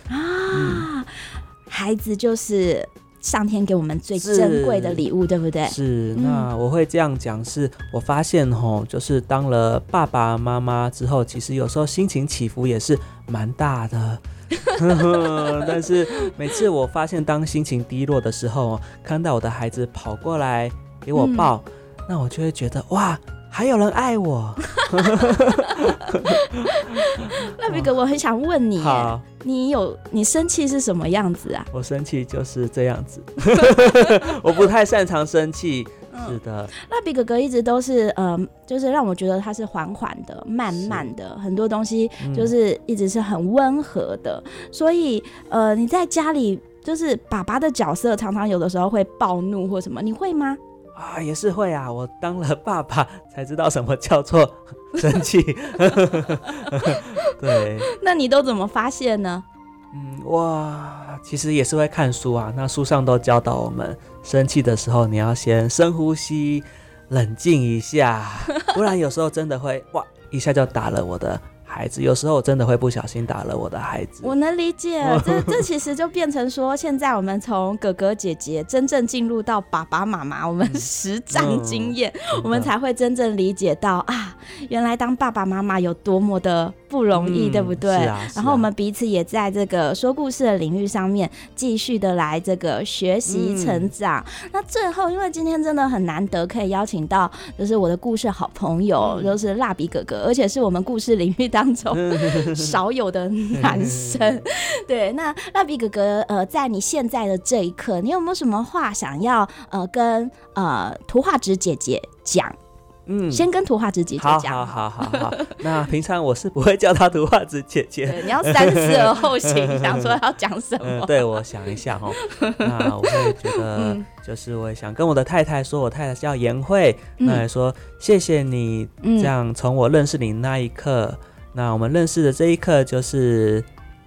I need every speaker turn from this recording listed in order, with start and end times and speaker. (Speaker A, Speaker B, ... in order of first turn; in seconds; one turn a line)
Speaker A: 0.1-6.5
Speaker B: 0.5-0.9
Speaker B: 4.2-5.0
Speaker B: 5.7-14.2
Speaker B: 14.7-27.9
Speaker A: 21.1-21.5
Speaker A: 24.8-31.7
Speaker B: 28.8-29.2
Speaker B: 31.7-36.7
Speaker A: 36.1-50.6
Speaker B: 40.7-41.0
Speaker B: 42.2-42.5
Speaker B: 50.9-57.9
Speaker A: 56.7-59.4
Speaker B: 59.9-74.3
Speaker A: 74.2-112.5
Speaker B: 75.0-75.6
Speaker B: 80.6-82.7
Speaker B: 87.1-88.7
Speaker B: 93.3-93.9
Speaker B: 99.0-99.4
Speaker B: 101.9-102.8
Speaker B: 103.5-104.4
Speaker B: 113.1-113.5
Speaker A: 113.3-115.5
Speaker B: 114.2-120.1
Speaker A: 118.0-121.5
Speaker B: 120.8-133.7
Speaker A: 122.2-124.0
Speaker A: 127.2-127.4
Speaker A: 129.0-129.3